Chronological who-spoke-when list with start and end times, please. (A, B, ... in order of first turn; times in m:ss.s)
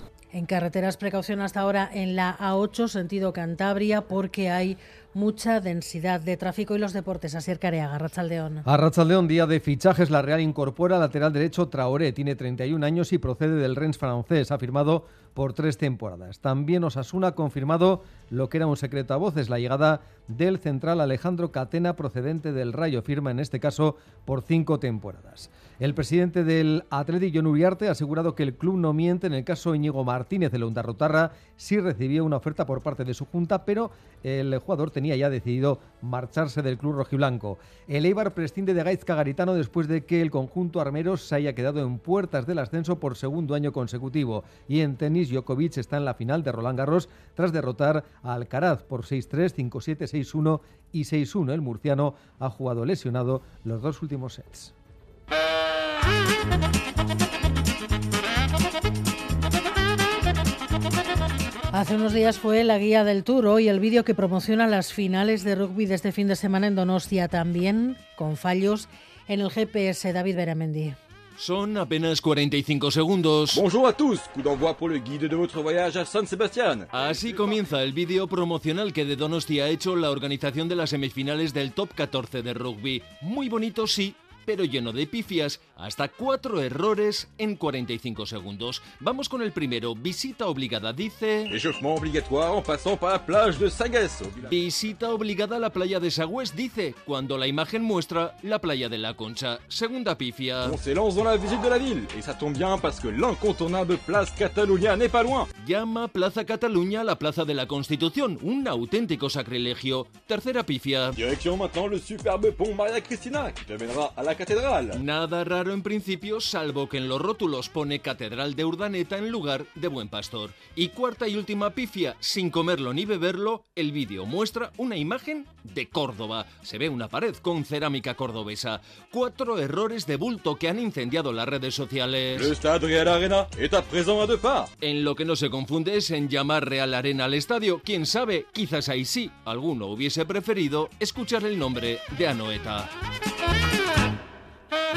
0:00.3-0:08.6 A
0:08.6-0:54.7 B
1:01.7-1:11.0 A
1:11.4-1:13.6 C
1:13.5-1:17.6 D
1:16.9-1:31.6 C
1:31.5-1:34.5 D
1:34.4-1:40.8 C
1:40.6-1:45.5 D
1:45.6-1:51.2 C
1:51.2-1:55.0 D
1:54.9-2:12.6 C
2:12.3-2:14.7 D
2:14.8-2:22.9 C